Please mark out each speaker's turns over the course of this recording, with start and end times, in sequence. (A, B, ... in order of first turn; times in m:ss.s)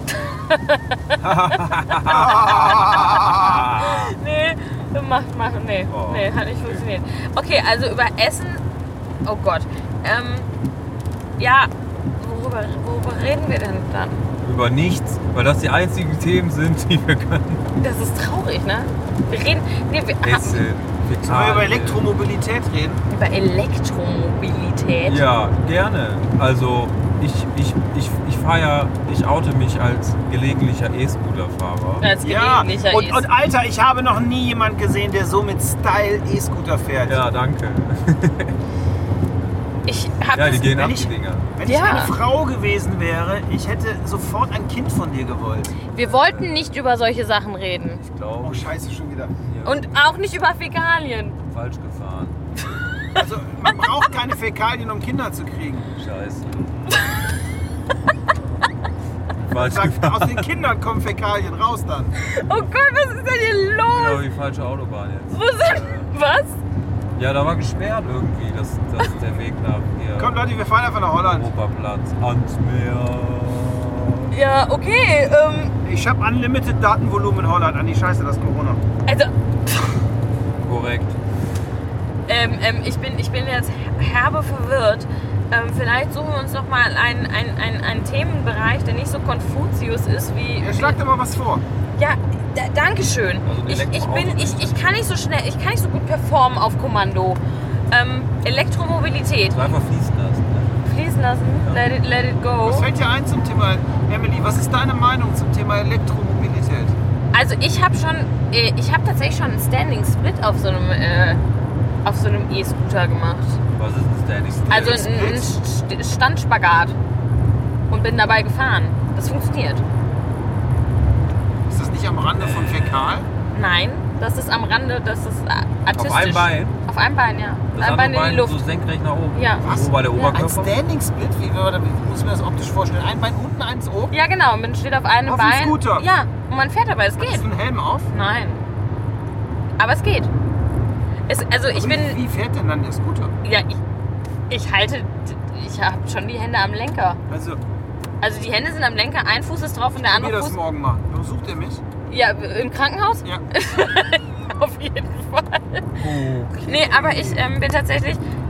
0:00.1-0:01.2 A
0:01.2-0:04.1 B
0:01.2-0:03.7 C
0:03.7-0:08.6 A
0:05.9-0:06.8 B
0:09.2-0:10.5 A
0:11.4-0:14.2 A
0:14.4-0:17.6 B
0:17.8-0:20.6 A
0:20.2-0:22.1 B
0:21.2-0:23.0 C
0:23.1-0:25.2 A
0:25.0-0:32.1 B
0:32.0-0:33.2 A
0:32.2-0:37.2 C
0:37.0-0:38.5 B
0:39.8-0:40.8 A
0:40.3-0:41.5 B
0:40.7-0:45.8 C
0:41.6-0:42.1 A
0:45.9-0:48.0 A
0:45.9-0:46.8 B
0:48.0-0:48.7 B
0:48.4-0:49.3 C
0:49.5-0:50.1 B
0:49.6-0:51.4 A
0:51.5-0:52.4 B
0:53.2-0:55.9 C
0:56.0-0:56.9 B
0:59.4-1:00.5 B
0:59.5-1:02.2 C
1:02.2-1:04.2 A
1:02.4-1:02.7 B
1:03.9-1:06.1 B
1:05.3-1:06.6 A
1:07.2-1:10.5 B
1:10.2-1:11.5 C
1:11.1-1:14.3 B
1:14.3-1:15.7 A
1:15.8-1:18.8 C
1:19.1-1:20.0 A
1:20.6-1:21.2 B
1:22.3-1:31.0 A
1:30.6-1:31.6 C
1:32.0-1:39.7 A
1:33.4-1:35.0 B
1:39.5-1:40.8 B
1:40.8-1:42.9 A
1:41.6-1:41.9 B
1:42.6-1:47.0 C
1:47.3-1:51.4 A
1:52.0-1:53.6 A
1:53.7-1:55.2 B
1:54.5-1:55.5 C
1:54.7-1:57.0 A
1:57.9-1:59.8 A
2:01.7-2:03.3 C
2:02.3-2:03.2 B
2:03.5-2:08.6 A
2:05.9-2:06.7 B
2:07.7-2:10.7 B
2:09.3-2:10.5 A
2:09.6-2:14.1 C
2:14.1-2:17.5 A
2:15.2-2:16.1 C
2:17.2-2:18.1 C
2:18.1-2:18.6 A
2:19.8-2:20.3 A
2:21.3-2:22.2 A
2:21.7-2:23.3 C
2:23.4-2:23.8 A
2:24.5-2:27.2 A
2:27.3-2:27.6 C
2:28.2-2:30.6 A
2:30.0-2:31.8 C
2:32.1-2:36.0 A
2:36.0-2:37.4 B
2:36.6-2:38.2 A